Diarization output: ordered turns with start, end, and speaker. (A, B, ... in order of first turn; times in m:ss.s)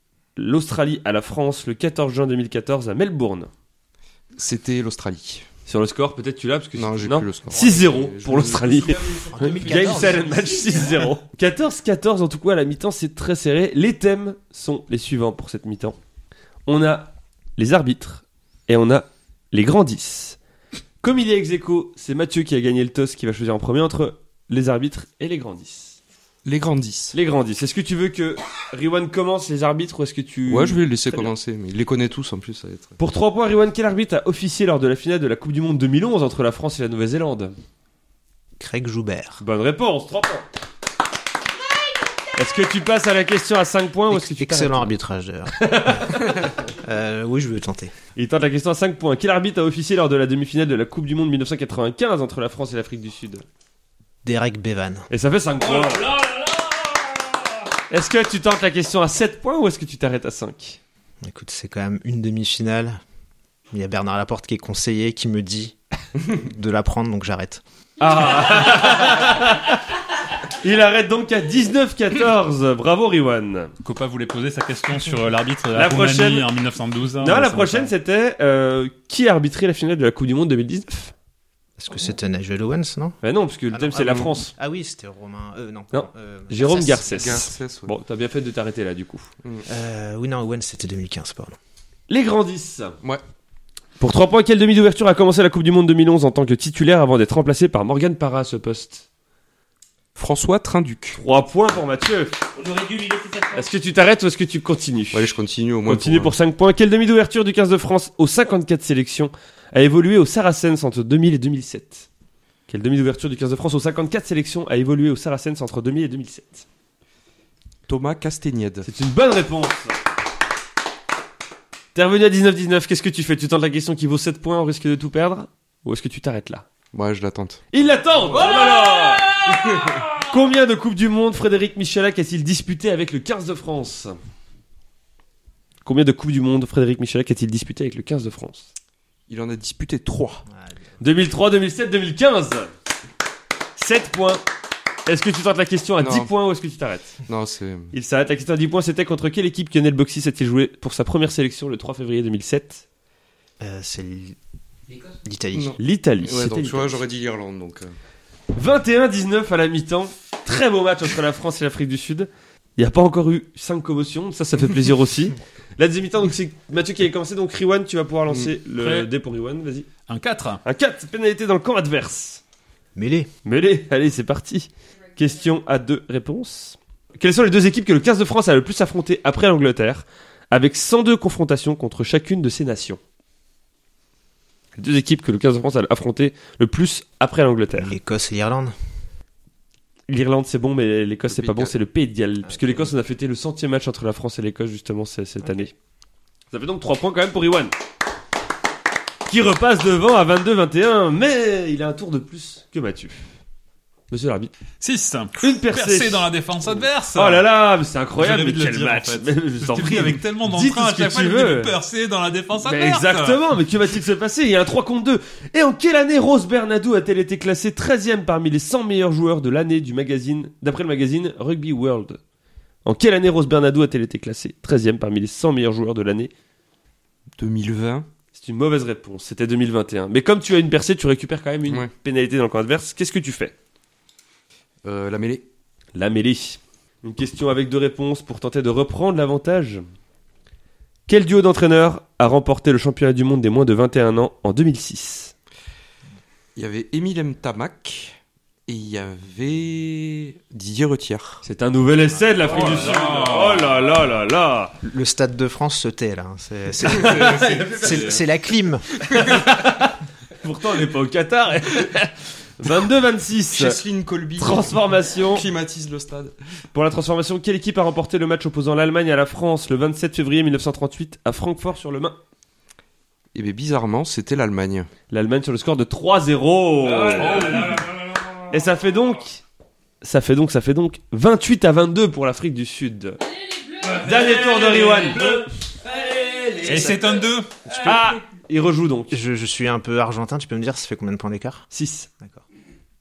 0:00.4-0:03.5 A
0:04.4-0:05.4 B
0:05.7-0:16.0 A
0:06.8-0:09.3 B
0:09.3-0:10.8 C
0:16.7-0:20.4 A
0:21.0-0:26.0 A
0:26.4-0:27.2 B
0:27.1-0:31.3 A
0:30.5-0:33.0 B
0:33.0-0:37.5 A
0:38.6-0:39.4 C
0:39.4-0:40.4 A
0:42.3-0:44.9 A
0:44.1-0:47.9 C
0:45.6-0:46.4 A
0:48.2-0:53.4 A
0:54.2-0:55.1 C
0:55.1-0:56.3 A
0:57.9-1:00.8 A
1:01.2-1:03.0 C
1:03.7-1:07.6 C
1:08.0-1:09.8 A
1:10.5-1:13.7 A
1:13.8-1:17.9 D
1:15.8-1:16.5 A
1:17.2-1:21.1 A
1:21.8-1:23.2 C
1:23.2-1:24.5 A
1:23.7-1:27.2 C
1:25.9-1:29.3 A
1:27.0-1:27.9 B
1:29.7-1:31.6 C
1:32.1-1:33.0 A
1:34.0-1:39.0 A
1:40.2-1:41.2 B
1:41.2-1:42.3 A
1:42.6-1:43.6 E
1:43.5-1:45.3 A
1:45.1-1:46.3 B
1:45.9-1:52.1 A
1:52.7-1:56.6 A
1:57.9-1:58.9 B
1:58.9-2:00.0 A
2:02.0-2:06.7 A
2:06.9-2:07.6 B
2:07.7-2:14.2 A
2:08.3-2:08.8 B
2:09.4-2:10.1 B
2:15.8-2:18.7 A
2:19.3-2:20.4 B
2:20.5-2:20.9 C
2:21.0-2:22.7 A
2:23.8-2:24.4 A
2:25.1-2:27.2 A
2:26.0-2:26.3 B
2:27.3-2:27.9 B
2:27.9-2:32.8 A
2:33.6-2:34.4 C
2:35.2-2:35.7 C
2:35.5-2:37.9 B
2:35.8-2:37.0 A
2:38.5-2:49.9 A
2:48.8-2:49.1 D
2:50.1-2:50.6 D
2:50.6-2:52.4 A
2:53.0-2:53.3 C
2:53.4-3:03.0 A
3:04.8-3:07.9 A
3:07.8-3:08.8 C
3:10.1-3:15.7 A
3:11.3-3:11.7 B
3:12.5-3:12.8 C
3:16.5-3:17.7 A
3:19.3-3:23.3 A
3:24.1-3:24.5 A
3:24.8-3:27.5 D
3:25.4-3:31.8 A
3:28.2-3:33.4 D
3:32.6-3:42.2 A
3:42.8-3:46.3 A
3:47.4-3:48.1 B
3:48.3-3:53.5 A
3:54.8-3:55.5 B
3:56.0-3:59.8 A
4:01.1-4:05.3 A
4:06.6-4:11.4 B
4:11.4-4:14.8 A
4:12.5-4:13.9 D
4:14.8-4:18.9 C
4:17.0-4:18.2 A
4:17.1-4:17.7 B
4:19.1-4:23.8 A
4:23.5-4:24.8 B
4:24.4-4:25.5 A
4:25.3-4:26.4 B
4:26.7-4:32.2 A
4:33.3-4:34.9 B
4:35.1-4:37.8 A
4:37.2-4:37.8 D
4:38.5-4:39.4 A
4:40.0-4:43.2 A
4:43.9-4:46.9 E
4:43.9-4:45.5 A
4:46.6-4:47.5 D
4:47.8-4:49.2 A
4:49.1-4:51.6 C
4:51.7-4:52.1 A